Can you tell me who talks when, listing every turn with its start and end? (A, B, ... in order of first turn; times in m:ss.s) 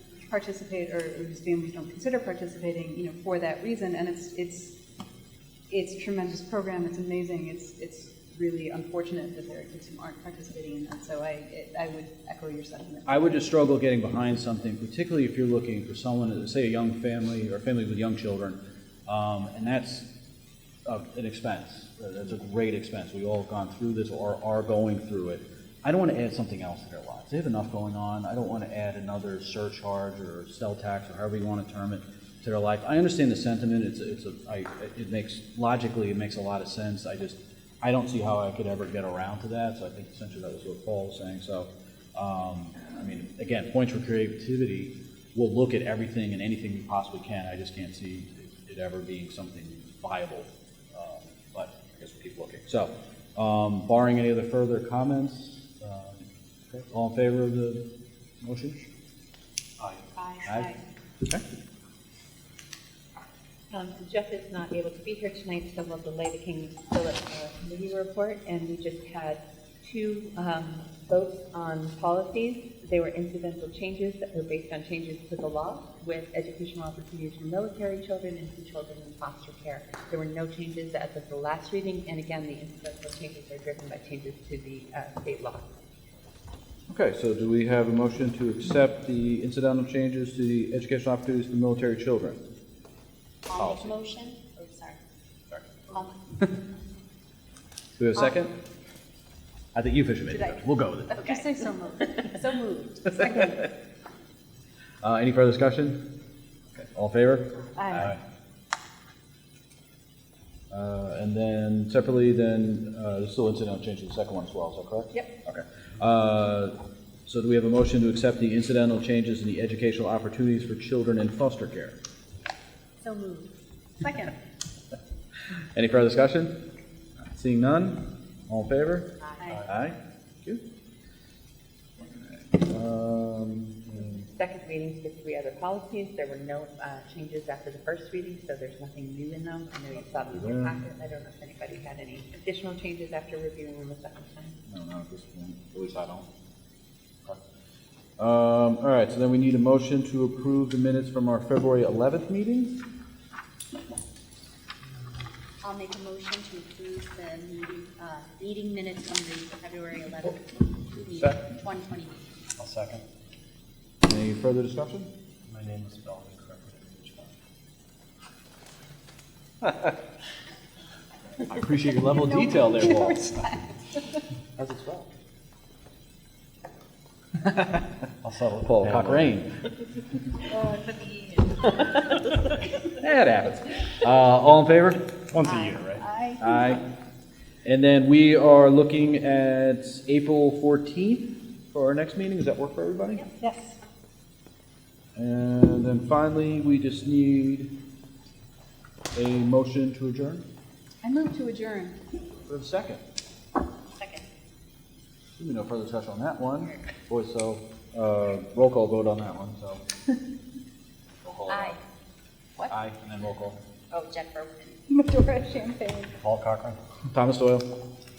0:00.3-0:04.8 A
0:05.7-0:13.3 A
0:13.1-0:20.0 B
0:20.9-0:57.8 B
0:58.4-0:58.8 B
1:00.2-1:00.8 C
1:00.4-1:00.7 B
1:03.7-1:25.7 D
1:26.9-1:32.4 B
1:33.5-1:35.0 C
1:33.5-1:34.0 B
1:35.5-1:36.0 B
1:35.9-1:36.2 C
1:38.0-1:38.5 B
1:39.8-1:41.3 B
1:41.1-1:41.4 C
1:41.2-1:43.6 A
1:42.6-1:43.1 C
1:45.0-1:46.0 B
1:46.8-1:48.2 B
1:47.8-1:48.2 A
1:50.7-2:02.0 B
2:03.0-2:03.4 C
2:03.1-2:03.4 A
2:04.0-2:04.3 A
2:05.8-2:06.5 B
2:07.2-2:09.1 B
2:09.2-2:09.6 C
2:09.4-2:09.7 A
2:09.6-2:10.6 B
2:12.0-2:14.3 B
2:14.2-2:24.6 D
2:20.3-2:20.8 B
2:24.7-2:26.3 B
2:28.2-2:32.8 B
2:35.6-2:42.2 C
2:41.0-2:41.4 B
2:42.6-2:43.0 E
2:44.0-2:45.1 B
2:45.5-2:47.3 E
2:49.6-2:49.9 B
2:51.5-2:53.5 B
2:52.3-2:54.0 A
2:54.6-2:55.1 B
2:57.4-2:57.8 B
2:58.2-2:59.3 E
2:58.5-2:59.5 B
3:00.4-3:02.4 C
3:02.9-3:05.0 B
3:05.3-3:06.0 E
3:05.4-3:06.8 C
3:06.4-3:06.8 B
3:07.6-3:13.3 B
3:13.4-3:13.8 A
3:15.2-3:17.7 B
3:19.2-3:20.4 B
3:21.0-3:22.0 A
3:22.5-3:23.0 B
3:24.0-3:24.3 C
3:25.4-3:29.8 B
3:26.6-3:26.8 C
3:31.2-3:31.8 B
3:31.5-3:31.8 C
3:32.7-3:33.6 B
3:33.9-3:34.8 C
3:34.9-3:36.2 A
3:36.2-3:37.0 E
3:37.1-3:37.6 B